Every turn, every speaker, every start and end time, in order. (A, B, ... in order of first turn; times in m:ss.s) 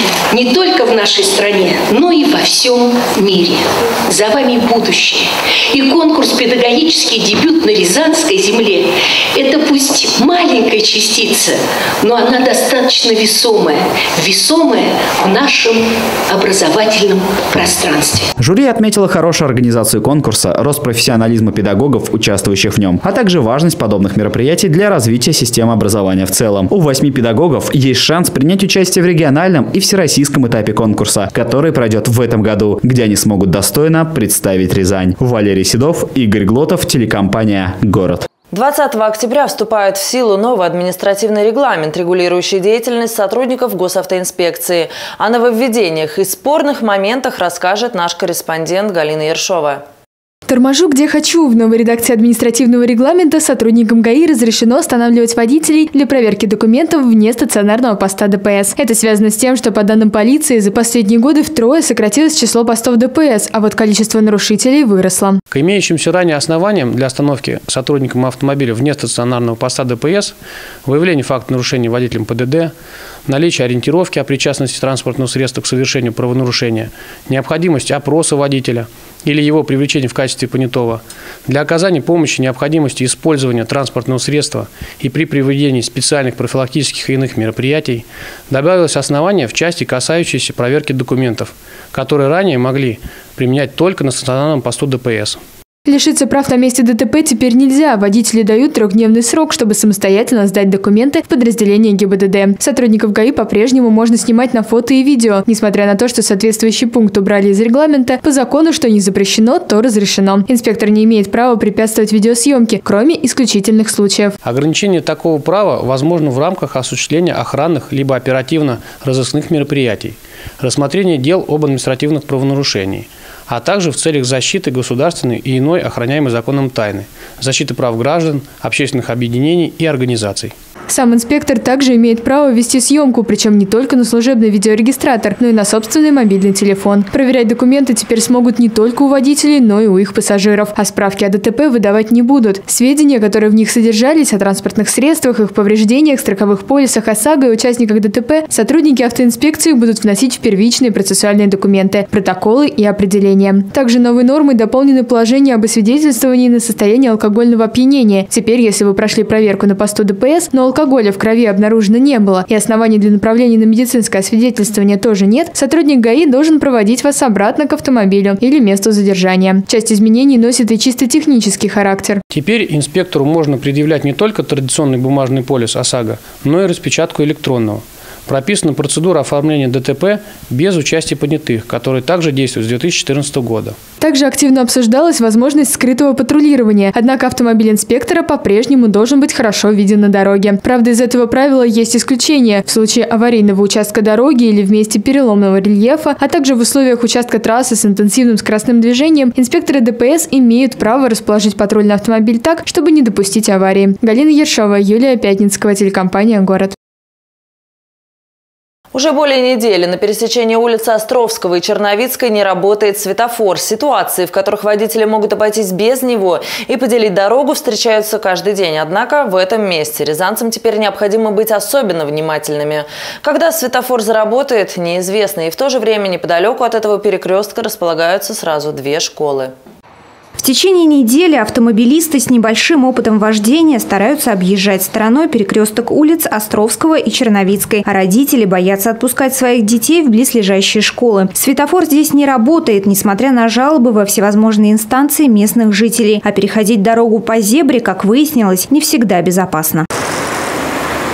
0:00.3-0:18.3 A
0:18.4-0:38.3 B
0:38.5-0:49.8 C
0:50.5-1:05.4 D
1:05.5-1:12.7 E
1:13.2-1:35.4 E
1:35.9-1:54.4 D
1:54.4-2:10.5 E
2:10.9-2:52.2 D
2:52.3-3:03.8 E
3:04.0-3:26.8 D
3:28.9-3:49.5 C
3:50.4-4:09.9 F